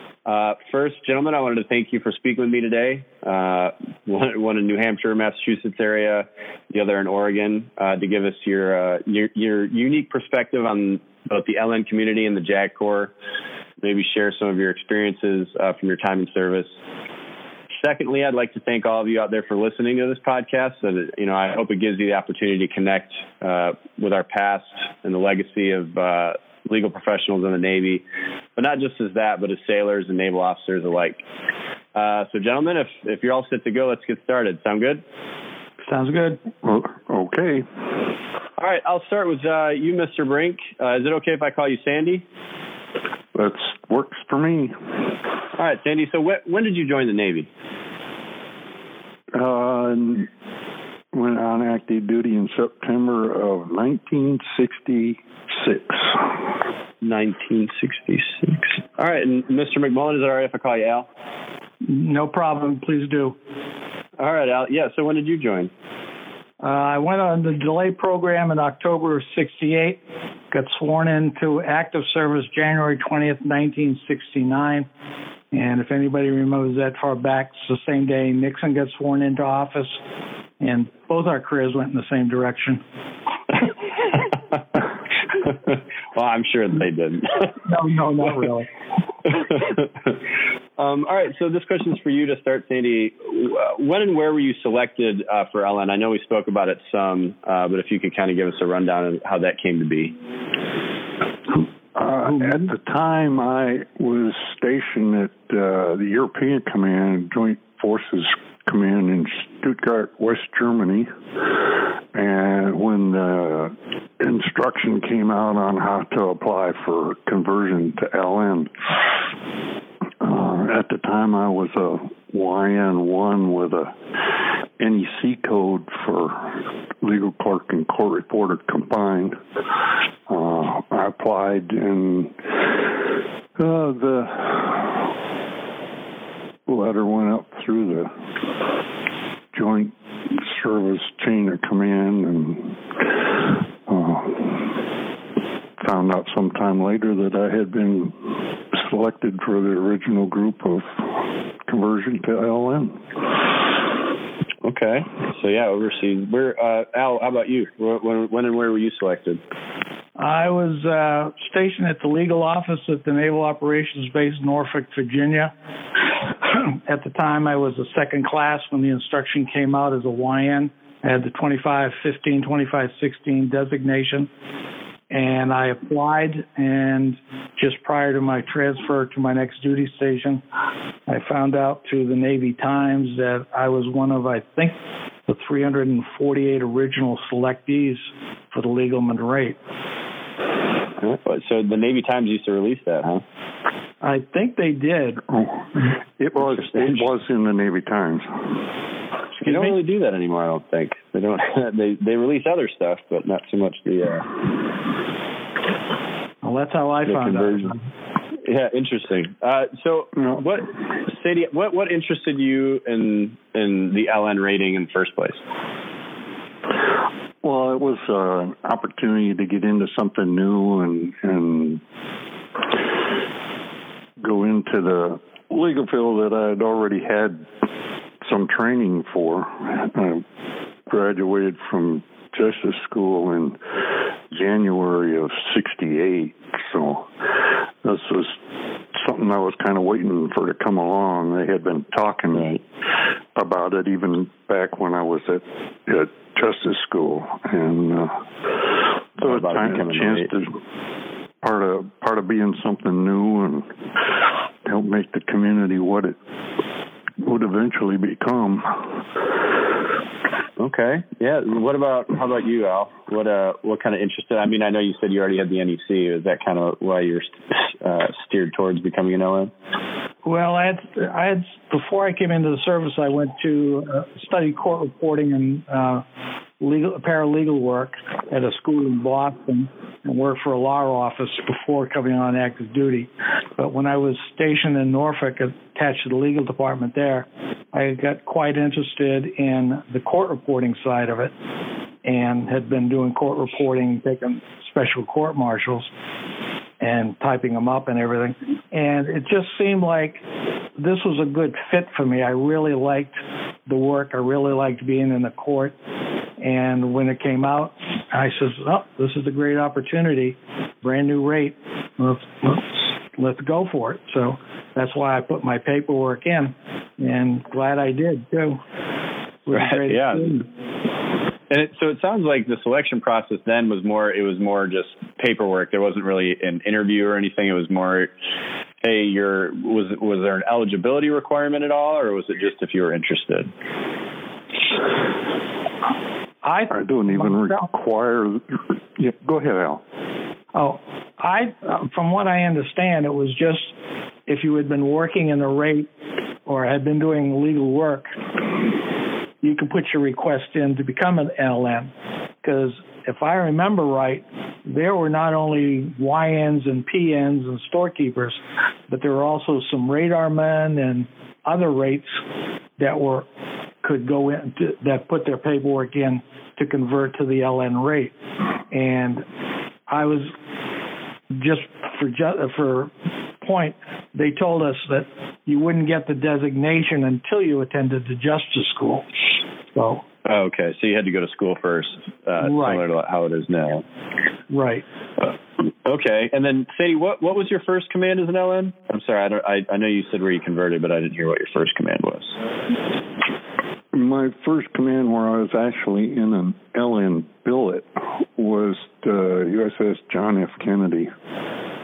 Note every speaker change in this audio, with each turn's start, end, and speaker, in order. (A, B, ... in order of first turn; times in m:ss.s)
0:00.2-0:13.1 A
0:13.8-0:16.7 A
0:17.8-0:28.0 A
0:28.6-0:31.2 A
0:31.9-0:35.0 A
0:35.8-0:36.4 B
0:36.6-0:37.8 C
0:38.6-0:42.2 A
0:43.3-0:44.9 C
0:45.5-0:47.5 A
0:49.3-0:50.3 C
0:51.1-0:56.4 C
0:57.0-1:01.1 A
1:01.8-1:03.4 B
1:04.2-1:05.7 A
1:06.6-1:10.0 B
1:10.5-1:14.9 B
1:15.5-1:20.0 B
1:20.6-1:22.8 B
1:25.4-1:27.6 A
1:27.6-1:28.7 B
1:29.2-1:29.9 A
1:30.8-1:40.2 A
1:41.9-1:51.6 C
1:52.1-1:59.0 C
2:00.2-2:09.4 C
2:10.3-2:15.1 C
2:16.7-2:18.2 C
2:19.5-2:24.8 C
2:25.8-2:31.1 C
2:31.6-2:33.2 C
2:34.6-2:39.4 A
2:40.2-2:45.5 B
2:46.4-2:54.3 B
2:55.1-3:00.4 B
3:01.1-3:09.6 B
3:11.2-3:13.2 A
3:14.0-3:15.2 B
3:15.3-3:18.6 C
3:16.6-3:17.0 A
3:19.4-3:24.4 A
3:19.4-3:19.7 B
3:26.4-3:27.8 B
3:27.0-3:27.7 A
3:28.4-3:35.4 A
3:37.4-3:41.8 C
3:44.2-3:47.5 C
3:48.2-3:50.2 C
3:50.9-3:57.1 C
3:57.8-3:58.4 C
3:58.9-4:02.5 C
4:02.3-4:02.6 A
4:03.3-4:08.2 C
4:09.2-4:10.6 C
4:09.2-4:10.3 A
4:11.4-4:13.7 C
4:14.6-4:16.2 C
4:17.2-4:19.0 C
4:20.6-4:29.5 A
4:30.2-4:36.0 B
4:36.6-4:51.3 B
4:52.0-4:55.9 B
4:56.8-5:00.2 B
5:00.8-5:05.8 B
5:06.4-5:12.6 B
5:13.2-5:18.6 B
5:19.4-5:20.4 B
5:19.5-5:20.4 A
5:21.5-5:28.1 A
5:28.8-5:33.5 A
5:36.4-5:37.6 B
5:36.7-5:39.8 C
5:40.5-5:43.7 B
5:44.3-5:45.9 B
5:46.4-5:48.1 B
5:49.4-5:51.9 B
5:52.4-6:02.2 B
6:02.8-6:03.3 B
6:03.8-6:08.1 B
6:08.7-6:09.2 B
6:09.9-6:10.3 B
6:11.3-6:19.0 B
6:19.7-6:20.0 B
6:20.2-6:23.8 A
6:22.4-6:22.8 B
6:24.5-6:24.8 B
6:25.8-6:32.3 A
6:33.9-6:41.1 C